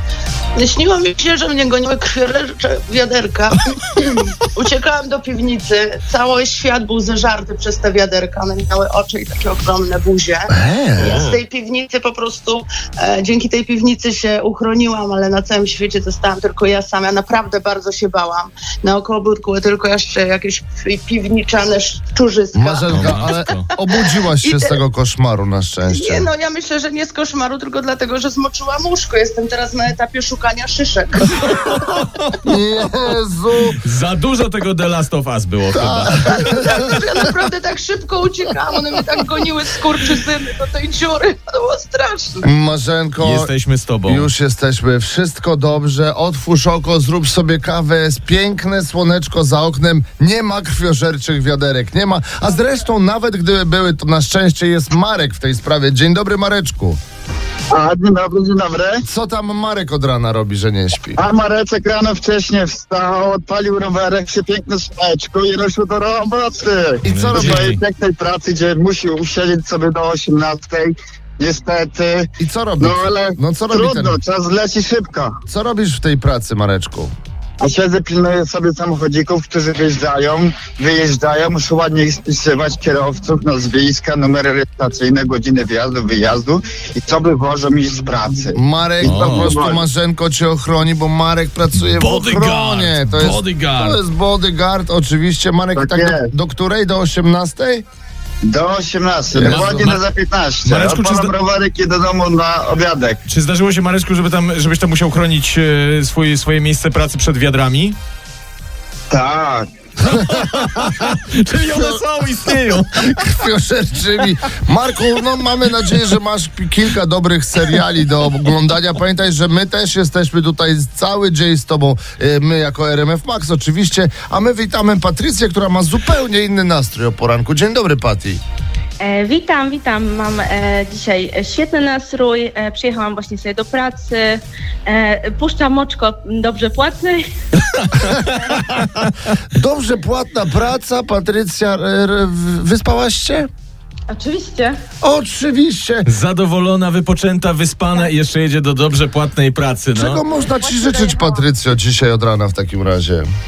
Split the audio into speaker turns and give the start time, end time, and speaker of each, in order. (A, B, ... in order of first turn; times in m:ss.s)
0:00.5-0:24.8 A
0:10.5-0:11.3 B
0:22.5-0:26.3 B
0:22.9-0:23.7 C
0:25.9-0:32.0 A
0:32.4-0:33.8 B
0:33.8-0:36.4 C
0:35.7-0:36.9 B
0:36.2-0:42.4 A
0:42.4-0:43.5 B
0:43.2-0:44.3 C
0:44.0-0:57.0 B
0:57.7-0:59.0 D
0:59.0-1:01.2 B
1:01.2-1:15.4 D
1:07.1-1:07.7 B
1:07.1-1:07.8 C
1:12.4-1:14.2 B
1:15.4-1:17.1 B
1:17.6-1:29.8 D
1:28.6-1:37.8 B
1:29.0-1:29.5 C
1:31.8-1:34.0 C
1:35.8-1:36.3 D
1:38.4-1:43.2 D
1:39.3-1:39.9 B
1:39.4-1:40.0 C
1:40.6-1:41.3 C
1:43.3-1:48.0 C
1:49.1-1:49.7 D
1:50.1-1:53.3 C
1:50.1-1:51.1 B
1:51.7-1:52.0 B
1:53.0-2:08.4 B
2:09.0-2:17.2 E
2:18.0-2:23.5 B
2:18.2-2:18.6 E
2:24.1-2:24.8 E
2:25.0-2:26.1 B
2:26.0-2:30.2 C
2:29.9-2:33.2 B
2:30.3-2:31.4 E